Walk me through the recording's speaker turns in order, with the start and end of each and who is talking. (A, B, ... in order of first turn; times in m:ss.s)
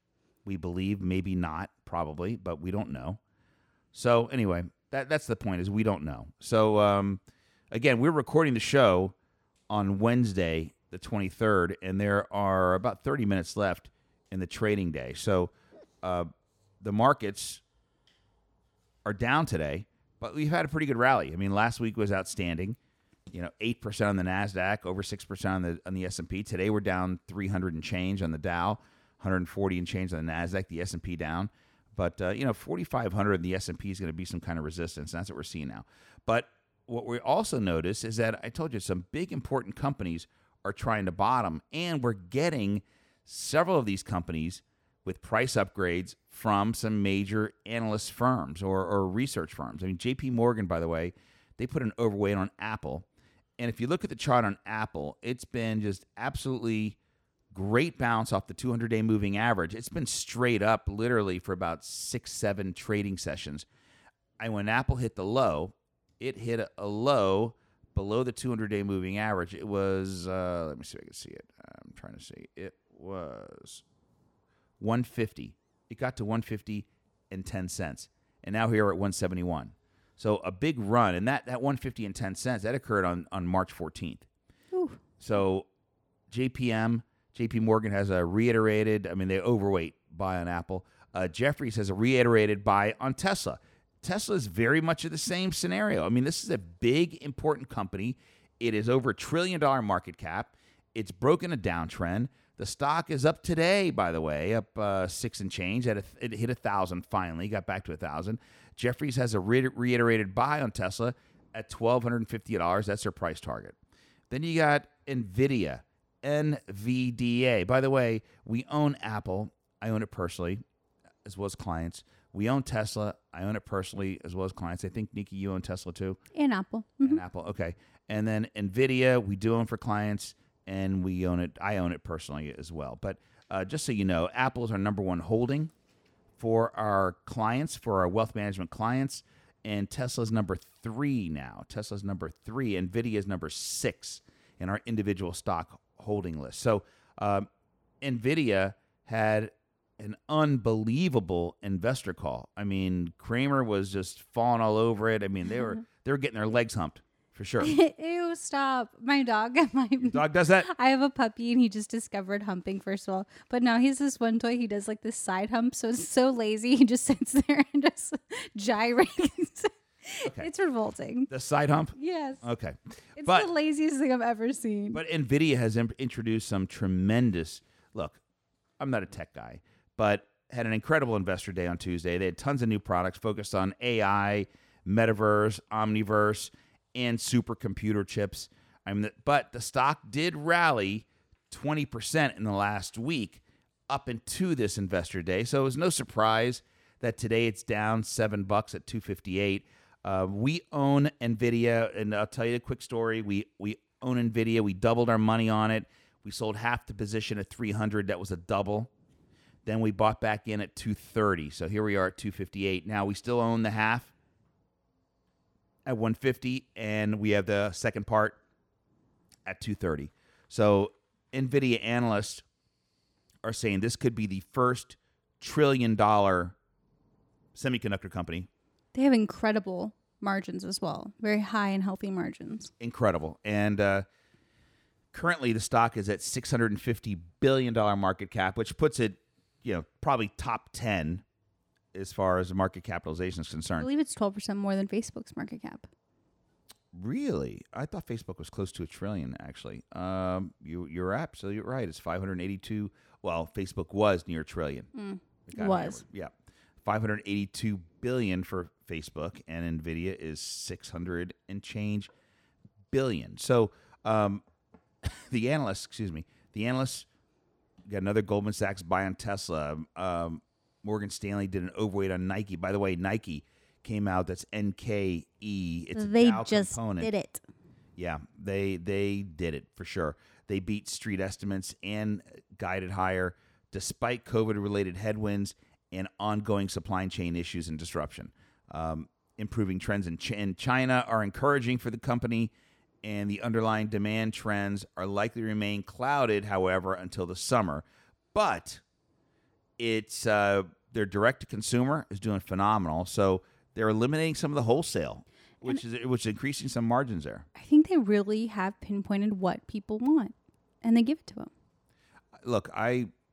0:00.4-0:03.2 A
0:03.9-0:07.2 A
0:07.7-0:09.1 A
0:09.7-0:16.3 A
0:16.8-0:17.6 A
0:19.0-0:22.8 A
0:23.3-0:53.0 A
0:53.6-0:57.0 A
0:57.5-1:03.6 A
1:04.4-1:13.8 A
1:14.8-1:24.2 A
1:24.7-1:25.0 B
1:25.2-1:25.7 A
1:26.3-1:53.8 A
1:54.3-2:00.6 A
2:01.2-2:06.2 A
2:06.3-2:07.2 B
2:07.0-2:15.7 A
2:16.4-2:27.5 A
2:28.0-2:37.7 A
2:37.6-2:51.3 B
2:40.0-2:40.7 A
2:51.3-2:53.5 A
2:51.9-2:52.4 B
2:53.2-2:55.0 B
2:54.9-2:58.2 A
2:58.8-3:28.9 A
3:29.6-3:34.1 A
3:35.8-3:38.4 A
3:39.4-3:42.4 A
3:43.4-3:46.5 A
3:47.5-3:48.5 A
3:48.9-3:52.7 B
3:52.8-3:54.0 A
3:55.1-4:01.2 A
4:01.9-4:03.9 A
4:03.8-4:05.9 B
4:06.9-4:14.9 A
4:14.9-4:16.0 B
4:15.5-4:22.1 A
4:22.9-4:24.4 A
4:25.0-4:27.1 A
4:27.8-4:37.1 A
4:35.9-4:37.4 B
4:38.0-4:52.5 A
4:53.0-4:58.8 A
4:59.8-5:07.4 A
5:07.5-5:11.5 B
5:12.4-5:13.1 A